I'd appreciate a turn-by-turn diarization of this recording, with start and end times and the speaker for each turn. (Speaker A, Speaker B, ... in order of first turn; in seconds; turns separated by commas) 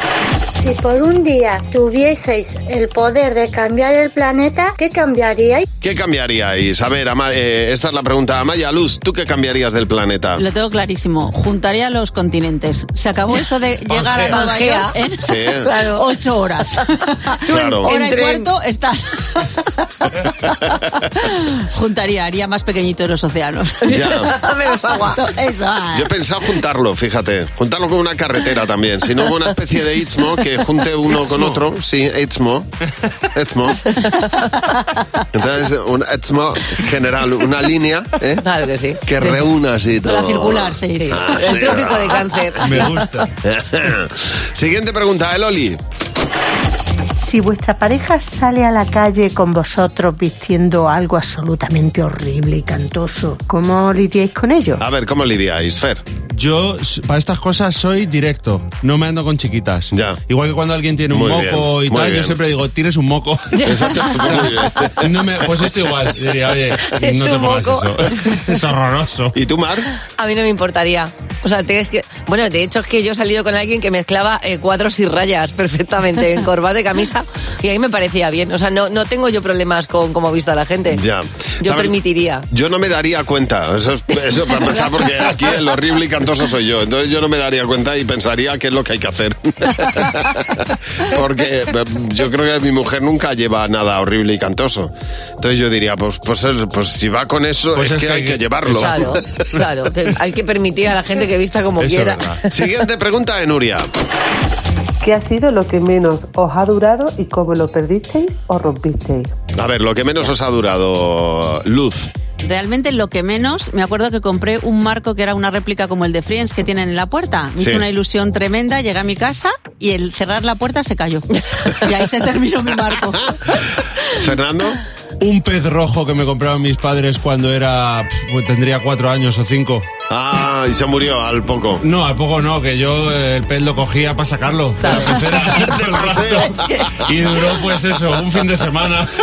Speaker A: 0.6-5.6, Speaker B: 5.8-10.4, Speaker C: 10.4-24.4, Speaker D: 13.9-16.1, Speaker B: 15.2-15.7, Speaker B: 17.5-17.9, Speaker D: 17.5-18.5, Speaker D: 23.8-25.3, Speaker B: 23.9-24.3, Speaker C: 25.0-26.1, Speaker B: 25.9-32.7, Speaker E: 31.1-31.6, Speaker B: 33.2-34.1, Speaker B: 35.3-38.4, Speaker D: 38.4-39.0, Speaker B: 39.0-42.2, Speaker C: 40.0-41.6, Speaker D: 41.0-43.2, Speaker E: 42.6-43.3, Speaker B: 43.4-45.8, Speaker F: 47.2-54.8, Speaker B: 54.8-56.0, Speaker E: 56.3-69.3, Speaker B: 59.9-60.2, Speaker B: 61.1-62.4, Speaker D: 63.6-64.5, Speaker B: 63.6-65.6, Speaker D: 66.9-68.3, Speaker B: 69.3-69.9, Speaker D: 70.2-81.0, Speaker B: 80.9-81.9, Speaker D: 81.6-82.5, Speaker B: 82.5-99.3, Speaker E: 97.7-99.2, Speaker D: 98.7-102.5, Speaker E: 101.8-102.4, Speaker B: 102.5-103.9, Speaker G: 105.0-109.3, Speaker B: 109.5-112.1, Speaker C: 112.4-123.3, Speaker B: 117.6-117.8, Speaker B: 124.0-124.8, Speaker E: 125.2-129.8, Speaker B: 130.1-131.8, Speaker E: 131.8-139.1, Speaker B: 134.8-137.0